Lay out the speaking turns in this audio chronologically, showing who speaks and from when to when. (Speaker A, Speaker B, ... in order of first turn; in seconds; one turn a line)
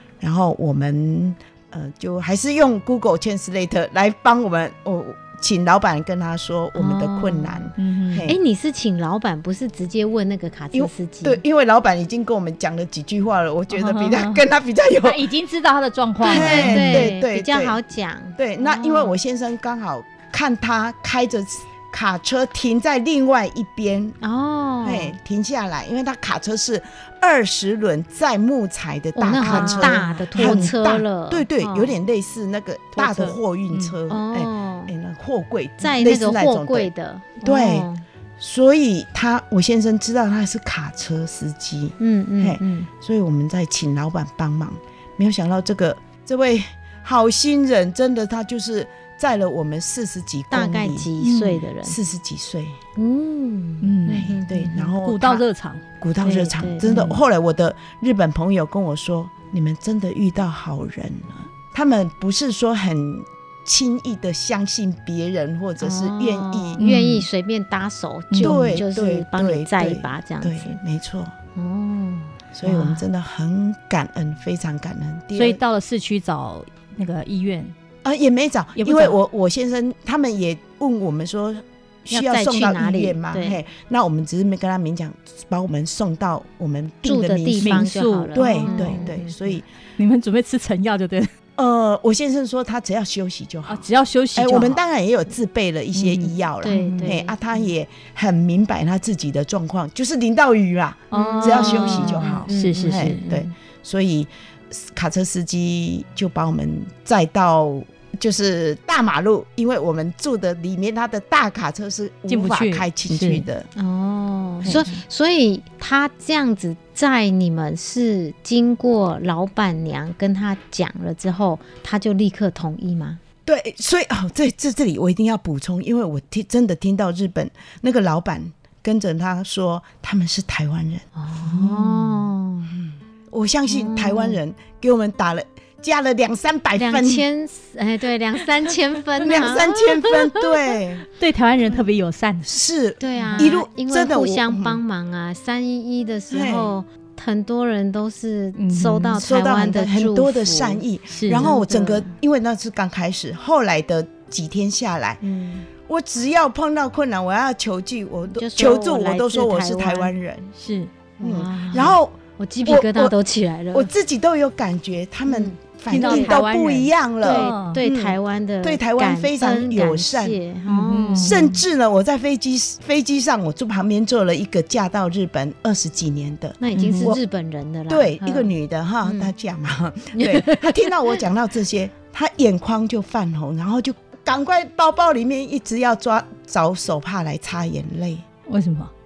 Speaker A: 0.2-8.4
Speaker B: 6.8-7.7
Speaker C: 7.8-8.3
Speaker B: 8.2-11.4
Speaker A: 10.7-15.2
Speaker C: 13.7-14.4
Speaker C: 15.0-17.1
Speaker A: 16.2-17.8
Speaker B: 16.2-19.2
Speaker A: 18.4-24.2
Speaker B: 24.2-25.1
Speaker A: 24.8-36.9
Speaker B: 29.1-31.9
Speaker C: 29.4-30.8
Speaker B: 33.0-33.3
Speaker B: 34.1-34.9
Speaker B: 35.8-38.0
Speaker A: 37.4-37.9
Speaker A: 38.4-51.1
Speaker B: 42.0-42.9
Speaker B: 50.5-52.0
Speaker C: 51.2-51.6
Speaker A: 51.8-52.8
Speaker B: 53.0-54.9
Speaker C: 53.8-54.3
Speaker A: 54.1-55.4
Speaker C: 55.0-55.8
Speaker A: 56.0-66.8
Speaker B: 56.2-57.1
Speaker C: 56.9-57.2
Speaker B: 65.8-70.8
Speaker C: 66.8-67.3
Speaker C: 68.3-68.7
Speaker A: 68.4-71.3
Speaker B: 71.5-73.0
Speaker A: 72.5-75.6
Speaker C: 75.3-77.7
Speaker A: 78.0-89.7
Speaker C: 78.8-79.2
Speaker B: 82.1-83.6
Speaker B: 87.0-89.5
Speaker C: 87.6-89.1
Speaker C: 90.0-91.3
Speaker A: 91.5-113.7
Speaker C: 93.7-94.8
Speaker C: 95.9-97.2
Speaker B: 96.6-97.3
Speaker C: 101.1-103.2
Speaker B: 101.1-103.5
Speaker C: 112.3-113.4
Speaker B: 113.8-123.2
Speaker C: 114.6-115.0
Speaker A: 123.5-132.0
Speaker B: 131.2-132.7
Speaker A: 132.7-137.2
Speaker B: 133.7-134.4
Speaker B: 136.8-140.4
Speaker A: 139.2-141.0
Speaker C: 141.2-142.5
Speaker A: 142.4-144.8
Speaker B: 143.0-152.1
Speaker C: 143.2-143.4
Speaker A: 146.3-146.7
Speaker C: 148.6-149.2
Speaker A: 149.2-155.2
Speaker C: 151.1-151.5
Speaker B: 155.2-155.7
Speaker A: 155.8-160.5
Speaker B: 158.3-160.1
Speaker C: 160.6-160.9
Speaker B: 161.2-163.9
Speaker A: 161.2-163.1
Speaker A: 163.7-170.4
Speaker B: 165.3-166.4
Speaker C: 165.9-167.8
Speaker B: 167.2-171.5
Speaker C: 170.7-171.5
Speaker A: 171.2-177.2
Speaker B: 176.6-178.5
Speaker C: 176.7-177.1
Speaker A: 177.9-188.2
Speaker B: 179.0-179.3
Speaker B: 180.1-181.2
Speaker C: 188.5-188.9